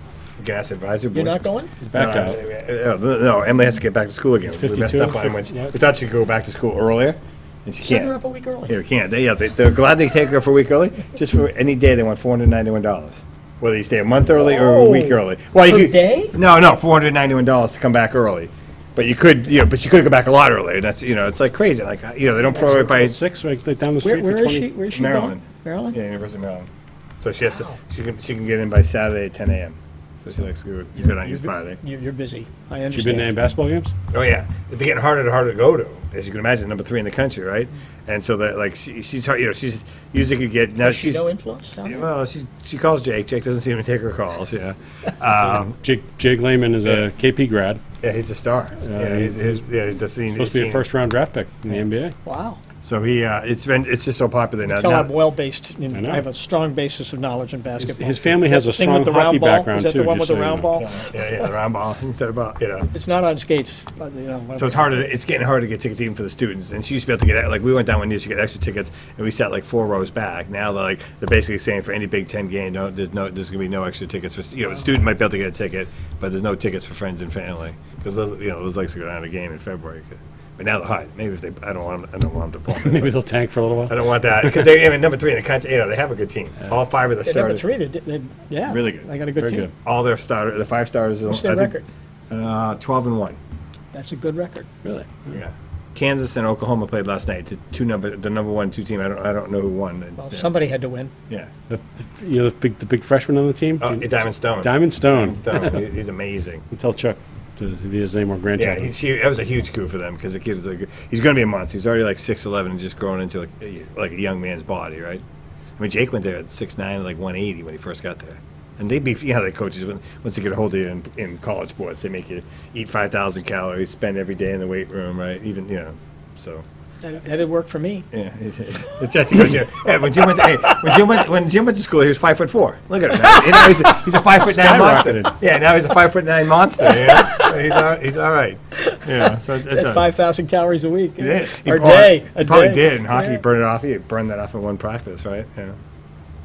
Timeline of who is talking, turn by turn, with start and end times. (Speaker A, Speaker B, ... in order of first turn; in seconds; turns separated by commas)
Speaker A: 0.4-1.4, Speaker B: 1.1-1.7, Speaker C: 1.8-2.4, Speaker A: 1.9-8.1, Speaker C: 4.5-5.7, Speaker B: 7.8-8.7, Speaker A: 8.7-23.2, Speaker B: 14.3-16.3, Speaker C: 22.6-24.7, Speaker B: 24.0-26.0, Speaker A: 24.9-26.7, Speaker A: 27.2-31.8, Speaker B: 27.4-27.8, Speaker B: 30.9-33.3, Speaker C: 32.9-33.9, Speaker A: 34.1-41.2, Speaker B: 40.8-42.1, Speaker A: 41.8-45.7, Speaker C: 45.6-47.8, Speaker A: 48.0-50.9, Speaker C: 48.8-49.6, Speaker C: 50.3-52.1, Speaker B: 52.2-52.6, Speaker A: 52.8-55.1, Speaker B: 54.7-61.2, Speaker C: 55.9-56.2, Speaker C: 57.8-60.7, Speaker A: 60.8-62.9, Speaker B: 62.9-65.1, Speaker A: 64.5-83.1, Speaker C: 82.7-84.7, Speaker A: 83.9-87.6, Speaker B: 87.2-89.7, Speaker A: 88.6-89.0, Speaker C: 89.4-89.7, Speaker A: 89.8-91.7, Speaker B: 91.3-91.9, Speaker A: 92.3-93.4, Speaker B: 93.9-94.7, Speaker C: 94.8-95.3, Speaker A: 95.3-100.5, Speaker B: 100.2-101.1, Speaker C: 101.7-105.8, Speaker A: 103.8-106.6, Speaker C: 106.7-108.9, Speaker A: 108.5-115.2, Speaker A: 115.8-126.6, Speaker B: 127.0-128.1, Speaker A: 128.1-140.1, Speaker C: 134.4-135.3, Speaker B: 136.8-137.6, Speaker B: 138.8-143.4, Speaker A: 141.2-145.8